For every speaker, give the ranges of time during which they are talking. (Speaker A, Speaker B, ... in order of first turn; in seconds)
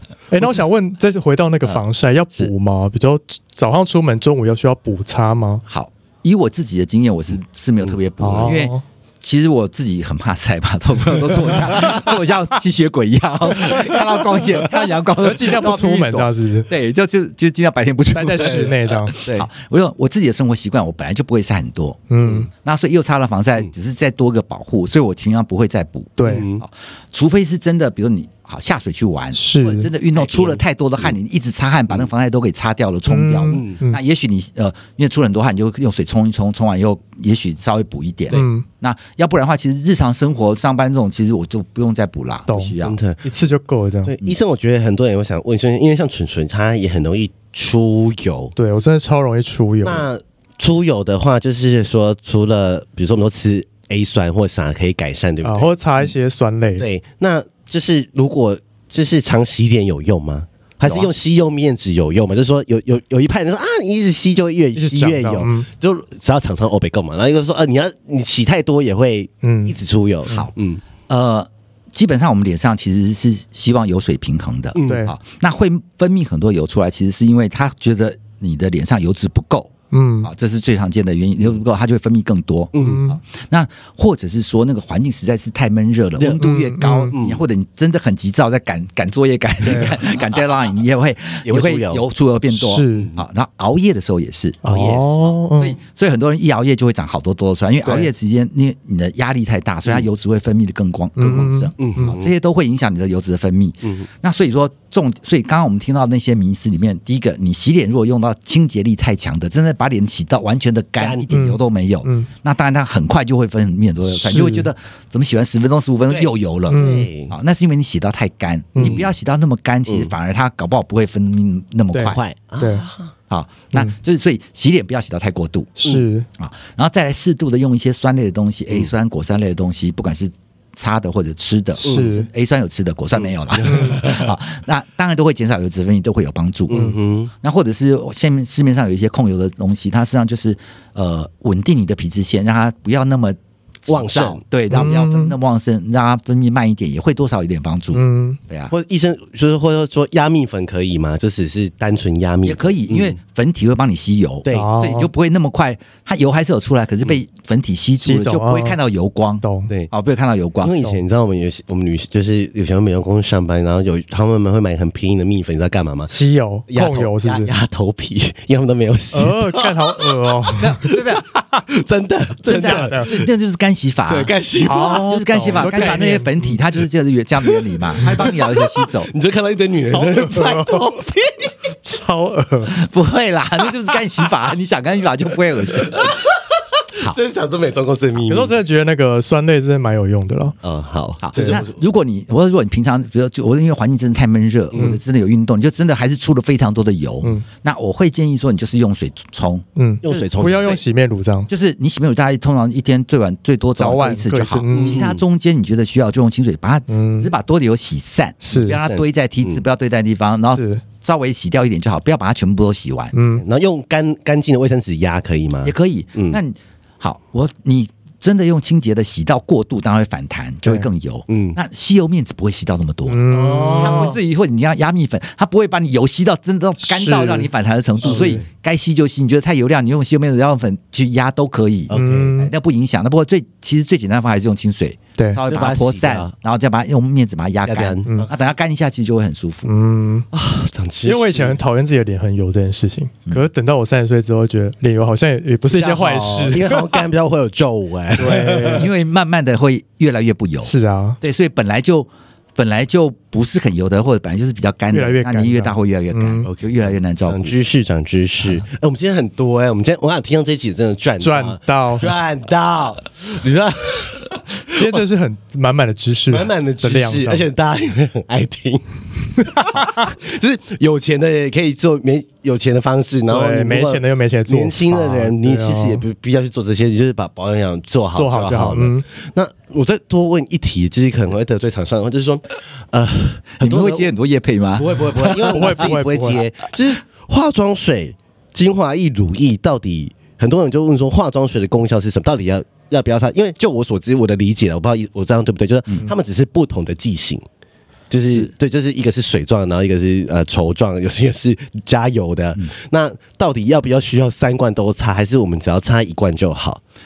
Speaker A: 0.3-5.6, 8.2-8.8, 15.2-16.7, 18.1-19.2, 22.1-22.5, 26.2-26.5, 29.3-29.9, 33.1-34.0, 38.3-38.7, 42.5-44.2, 48.6-50.1, 55.4-56.9, 64.8-65.7, 69.4-69.8, 74.8-75.1, 79.9-80.3, 82.8-83.2, 86.4-87.2, 89.6-90.0, 92.5-93.1, 94.6-95.8, 101.2-102.1, 111.3-112.3, 114.1-114.7, 116.7-117.1, 118.7-119.0, 121.9-122.9, 125.8-126.3, 131.8-132.3, 133.6-134.0, 136.7-137.0, 144.7-145.3, 147.9-148.4, 154.5-155.1, 158.0-158.8, 159.4-159.7, 166.1-167.5, 169.1-170.8, 172.5-173.1, 174.6-176.6, 180.0-180.9, 181.8-182.8, 188.2-190.6, 191.3-191.6, 194.8-195.0, 197.2-197.5, 199.8-201.5, 203.8-205.1, 206.9-207.3, 208.4-208.8, 210.5-210.8, 213.1-213.4, 223.1-224.1, 226.8-227.5, 228.0-228.4, 231.9-232.5, 239.7-240.3, 241.0-247.0, 248.2-248.9, 250.6-251.2, 254.9-256.5, 261.2-262.1, 264.7-267.5, 269.5-270.1, 273.3-276.0, 278.1-279.1, 285.5-286.4
Speaker B: 5.7-43.0, 60.8-61.1, 71.1-79.7, 80.2-122.2, 123.3-125.8, 126.4-148.7, 152.4-160.8, 170.6-171.3, 172.4-179.1, 182.7-186.2, 191.2-200.8, 201.5-213.1, 215.6-223.3, 223.8-239.7, 248.6-257.5, 283.6-285.8
Speaker C: 18.4-19.5, 26.2-26.6, 30.1-31.1, 33.5-33.8, 42.8-43.2, 44.1-48.5, 49.8-56.1, 56.8-70.8, 74.8-75.0, 82.7-83.0, 87.1-87.4, 89.7-90.4, 91.4-92.0, 101.8-102.3, 111.0-111.3, 116.1-117.3, 118.8-119.1, 119.9-120.1, 122.1-123.1, 131.8-132.2, 133.2-134.3, 136.7-137.3, 143.9-144.9, 148.7-153.2, 154.4-154.7, 160.6-166.1, 166.7-173.3, 174.1-176.0, 177.5-181.5, 185.8-186.3, 187.0-188.5, 190.6-191.8, 200.0-200.8, 204.7-205.2, 208.8-209.6, 213.4-216.4, 221.3-221.6, 223.3-224.2, 228.0-228.5, 231.9-232.3, 235.5-236.3, 237.6-238.3, 240.3-241.6, 245.7-248.9, 256.5-256.7, 257.3-265.0, 266.3-284.1, 284.8-297.5, 298.1-306.8